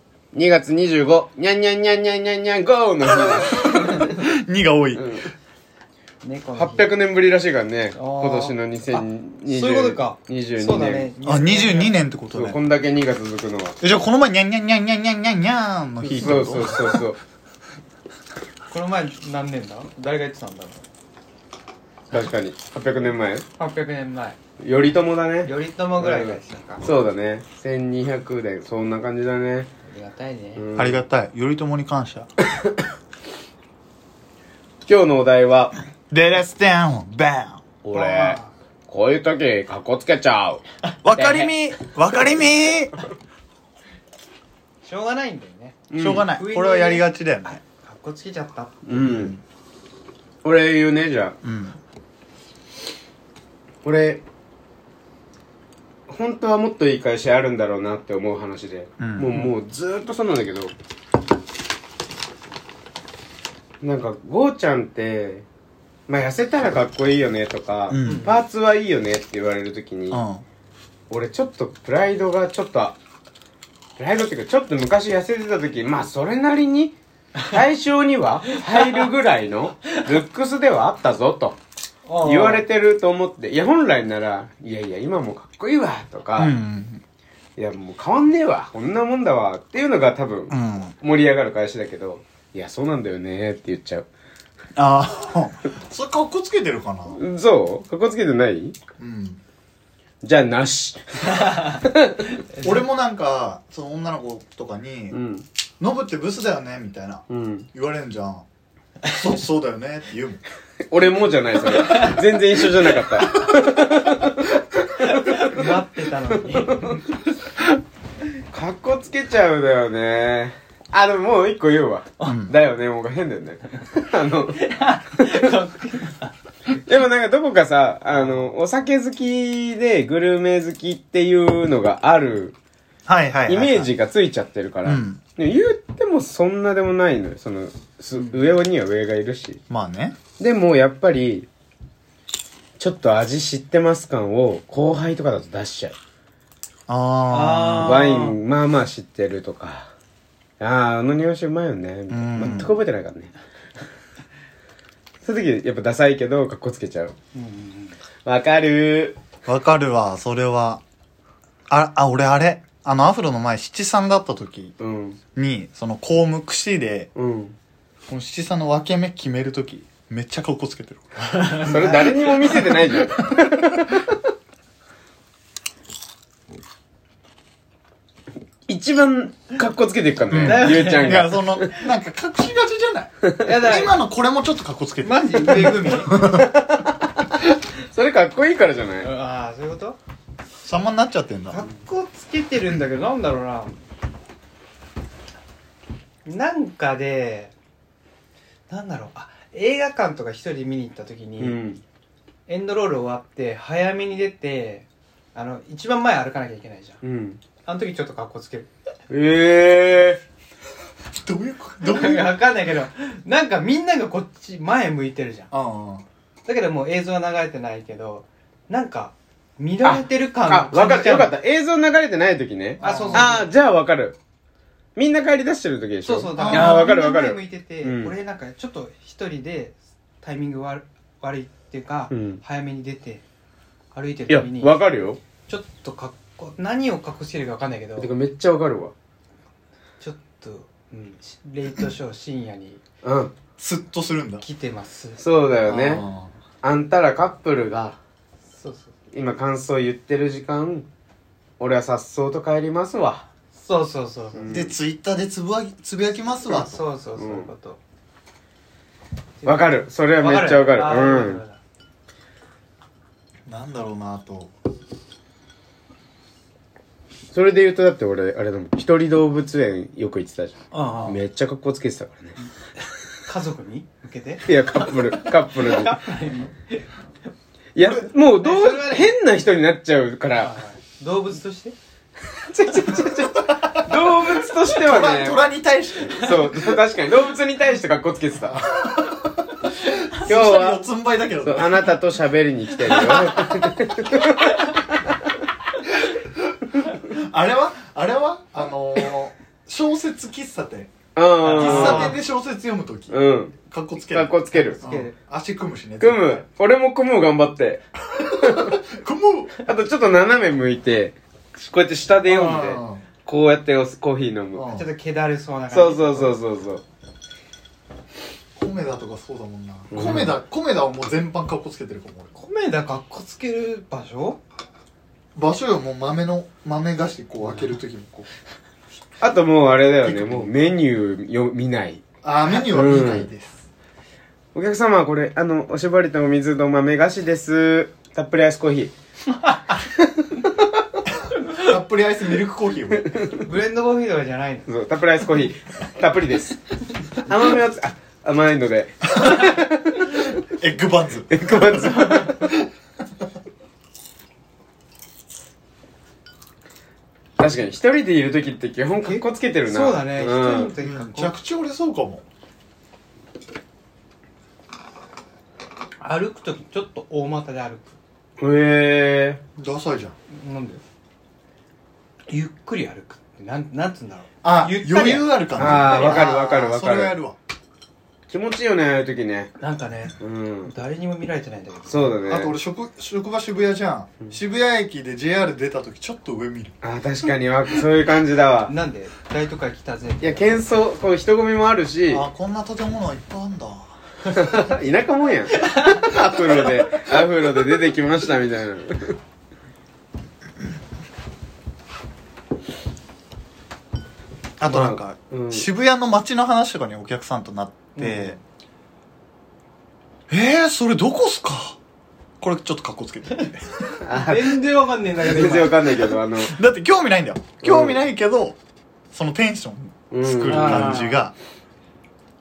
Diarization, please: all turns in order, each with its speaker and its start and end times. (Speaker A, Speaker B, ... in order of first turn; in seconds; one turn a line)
Speaker A: 0.3-4.2
Speaker B: 3.1-5.2
Speaker A: 4.9-5.3
Speaker C: 6.2-6.9
Speaker A: 6.6-11.1
Speaker C: 8.0-12.0
Speaker B: 11.2-12.6
Speaker A: 12.3-13.8
Speaker B: 13.8-17.0
Speaker A: 16.0-17.2
Speaker C: 18.7-20.8
Speaker A: 22.1-23.4
Speaker C: 23.6-24.4
Speaker A: 24.6-29.7
Speaker C: 25.4-26.8
Speaker C: 29.9-30.6
Speaker A: 30.6-31.0
Speaker B: 30.8-32.3
Speaker A: 32.5-32.8
Speaker A: 34.9-35.8
Speaker B: 36.1-37.6
Speaker A: 37.8-41.5
Speaker C: 37.9-38.5
Speaker B: 41.0-43.0
Speaker C: 44.8-48.8
Speaker A: 45.9-46.3
Speaker B: 46.0-47.6
Speaker A: 48.9-49.4
Speaker B: 49.0-49.4
Speaker A: 50.4-51.4
Speaker B: 51.4-51.8
Speaker A: 53.8-54.2
Speaker A: 56.1-60.7
Speaker B: 59.0-59.5
Speaker A: 63.8-65.5
Speaker A: 66.1-70.2
Speaker B: 67.9-68.3
Speaker C: 68.0-68.4
Speaker B: 70.1-70.4
Speaker A: 71.1-73.0
Speaker A: 74.0-77.0
Speaker A: 77.5-81.6
Speaker C: 78.5-79.0
Speaker C: 82.1-82.7
Speaker A: 82.2-86.5
Speaker B: 86.4-87.0
Speaker A: 87.6-94.1
Speaker B: 90.5-90.9
Speaker B: 94.8-97.2
Speaker A: 97.1-98.8
Speaker B: 99.0-99.4
Speaker A: 100.2-102.3
Speaker C: 101.3-101.8
Speaker C: 102.5-102.8
Speaker B: 102.6-105.2
Speaker A: 105.1-105.5
Speaker B: 105.8-108.5
Speaker A: 107.3-107.7
Speaker B: 109.0-110.4
Speaker A: 110.9-115.7
Speaker C: 111.7-112.2
Speaker C: 113.0-114.2
Speaker C: 115.0-117.2
Speaker A: 116.7-117.0
Speaker A: 118.5-125.5
Speaker B: 122.3-122.5
Speaker C: 124.5-126.3
Speaker A: 126.7-132.6
Speaker C: 128.1-128.5
Speaker B: 133.1-133.9
Speaker A: 133.5-139.6
Speaker B: 134.8-135.2
Speaker C: 138.2-138.5
Speaker B: 139.7-140.2
Speaker A: 140.4-141.5
Speaker A: 142.8-146.0
Speaker B: 146.9-148.1
Speaker C: 147.3-148.4
Speaker A: 147.8-149.9
Speaker A: 150.6-153.3
Speaker B: 152.1-152.8
Speaker A: 155.2-157.2
Speaker C: 157.3-158.0
Speaker A: 158.2-159.2
Speaker B: 159.5-160.8
Speaker B: 161.7-164.8
Speaker A: 164.8-165.2
Speaker B: 165.3-167.1
Speaker A: 167.2-167.6
Speaker B: 168.1-174.0
Speaker C: 171.3-172.7
Speaker A: 171.6-174.2
Speaker A: 178.7-181.8
Speaker B: 180.3-186.6
Speaker C: 180.4-181.3
Speaker C: 183.4-184.0
Speaker C: 185.0-186.2
Speaker A: 186.1-189.1
Speaker C: 189.0-190.0
Speaker B: 190.6-191.6
Speaker C: 191.5-193.8
Speaker C: 196.2-197.5
Speaker C: 198.7-201.6
Speaker A: 201.4-201.8
Speaker C: 202.5-207.0
Speaker A: 207.0-207.4
Speaker C: 207.7-208.7
Speaker A: 209.1-210.2
Speaker B: 211.1-212.3
Speaker C: 211.8-215.5
Speaker B: 215.5-216.1
Speaker C: 216.5-221.3
Speaker A: 219.8-224.2
Speaker B: 222.8-223.4
Speaker C: 222.8-223.5
Speaker A: 225.0-228.1
Speaker C: 226.0-233.2
Speaker B: 226.4-226.9
Speaker A: 232.1-232.4
Speaker C: 233.9-234.8
Speaker A: 234.3-235.2
Speaker C: 235.5-238.1
Speaker A: 238.0-238.9
Speaker C: 240.0-242.8
Speaker A: 243.0-243.3
Speaker B: 243.6-244.4
Speaker C: 244.4-245.9
Speaker A: 245.2-246.0
Speaker B: 245.7-246.3
Speaker A: 246.6-248.0
Speaker C: 248.5-248.9
Speaker A: 249.1-250.9
Speaker A: 251.6-253.3
Speaker C: 253.6-254.5
Speaker A: 254.3-254.8
Speaker B: 254.5-256.7
Speaker C: 256.5-257.8
Speaker A: 257.2-257.5
Speaker C: 259.4-261.6
Speaker A: 259.4-261.4
Speaker B: 263.5-264.5
Speaker A: 267.3-272.4
Speaker C: 270.7-271.2
Speaker C: 272.8-276.9
Speaker A: 274.5-276.0
Speaker A: 277.8-280.6
Speaker C: 278.3-279.1
Speaker C: 280.4-281.8
Speaker A: 282.3-285.4
Speaker B: 283.3-286.8
Speaker A: 286.1-288.7
Speaker B: 288.5-292.0
Speaker A: 290.2-290.9
Speaker A: 291.4-294.8
Speaker C: 292.9-293.5
Speaker B: 293.0-293.6
Speaker C: 294.5-294.7
Speaker B: 296.1-300.9
Speaker A: 301.1-302.2
Speaker C: 301.4-302.2
Speaker B: 301.5-306.4
Speaker A: 303.1-303.6
Speaker A: 304.1-304.8
Speaker C: 304.5-305.1
Speaker A: 306.0-308.8
Speaker B: 308.1-309.5
Speaker A: 309.6-314.6
Speaker B: 312.2-313.1
Speaker B: 314.5-314.9
Speaker C: 314.7-316.4
Speaker A: 315.7-316.8
Speaker B: 318.6-322.3
Speaker A: 319.9-320.4
Speaker C: 322.4-324.4
Speaker B: 325.4-328.3
Speaker A: 329.2-332.0
Speaker B: 330.0-330.5
Speaker B: 332.2-333.7
Speaker A: 332.6-333.3
Speaker A: 334.6-338.9
Speaker C: 339.4-339.7
Speaker A: 340.1-340.5
Speaker B: 341.5-343.2
Speaker A: 343.1-343.4
Speaker C: 343.4-344.7
Speaker A: 344.7-346.6
Speaker A: 347.2-350.2
Speaker B: 350.1-353.2
Speaker A: 351.3-352.5
Speaker A: 357.4-360.7
Speaker C: 359.0-361.4
Speaker B: 360.8-362.2
Speaker C: 366.0-368.0
Speaker A: 368.4-369.4
Speaker B: 369.6-370.2
Speaker C: 370.3-370.8
Speaker C: 372.3-376.2
Speaker B: 374.4-377.4
Speaker A: 375.6-377.1
Speaker A: 378.3-379.6
Speaker C: 379.6-382.1
Speaker A: 380.2-380.7
Speaker A: 381.9-382.6
Speaker B: 382.2-386.8
Speaker A: 386.8-388.7
Speaker C: 388.7-390.7
Speaker A: 390.2-392.3
Speaker B: 392.1-394.0
Speaker A: 394.3-399.2
Speaker C: 395.5-396.7
Speaker B: 404.6-408.4
Speaker A: 404.7-405.7
Speaker C: 408.0-408.4
Speaker B: 410.3-411.8
Speaker B: 412.4-413.7
Speaker A: 414.0-414.7
Speaker C: 414.1-416.1
Speaker A: 415.2-416.6
Speaker B: 416.4-418.6
Speaker A: 417.6-418.0
Speaker B: 419.1-421.3
Speaker A: 420.1-421.0
Speaker C: 420.5-421.2